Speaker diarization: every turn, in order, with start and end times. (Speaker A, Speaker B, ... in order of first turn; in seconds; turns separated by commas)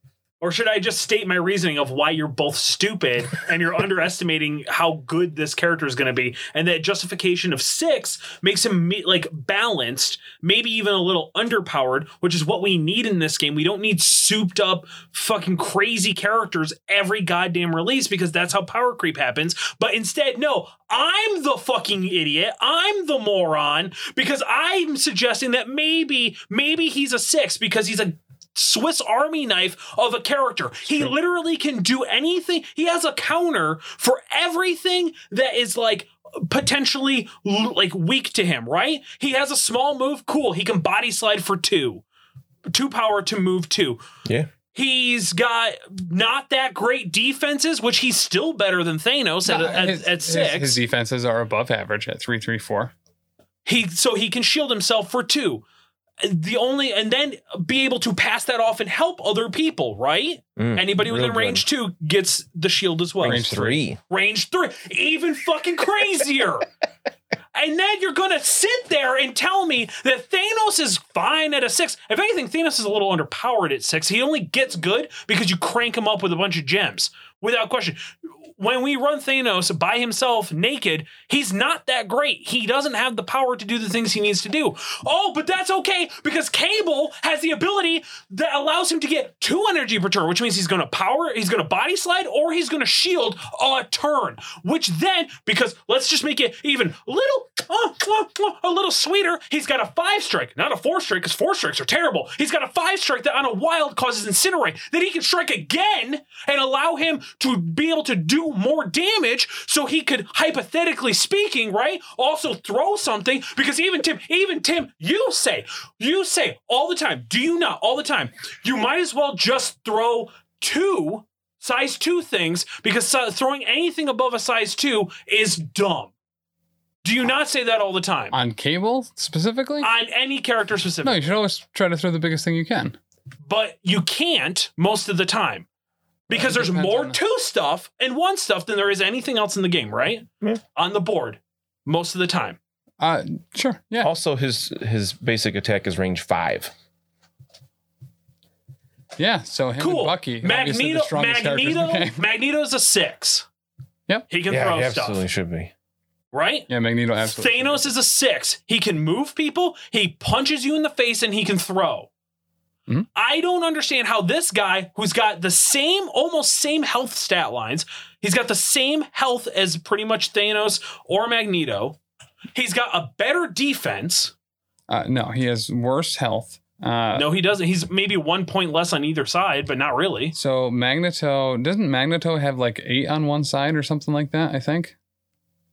Speaker A: 0.4-42.0, Speaker A: 42.7-44.0, Speaker B: 44.2-44.5, Speaker A: 44.7-50.8, Speaker C: 49.5-52.9, Speaker A: 53.6-55.6, Speaker A: 56.2-63.5, Speaker B: 60.6-61.6, Speaker B: 63.2-64.0, Speaker C: 63.2-63.8, Speaker A: 64.1-66.7, Speaker A: 67.5-126.1, Speaker A: 127.0-128.4, Speaker C: 128.3-129.9, Speaker A: 129.8-131.2, Speaker C: 131.0-133.0, Speaker A: 133.4-135.7, Speaker A: 136.3-142.6, Speaker C: 136.3-137.2, Speaker C: 143.0-144.1, Speaker B: 144.0-146.7, Speaker C: 149.2-152.2, Speaker A: 149.8-153.5, Speaker A: 154.3-155.2, Speaker B: 154.5-155.7, Speaker A: 156.3-156.7, Speaker C: 156.7-157.8, Speaker A: 157.3-162.1, Speaker A: 163.2-172.0, Speaker A: 172.5-174.3, Speaker C: 174.9-177.3, Speaker A: 177.1-180.3, Speaker C: 180.3-185.0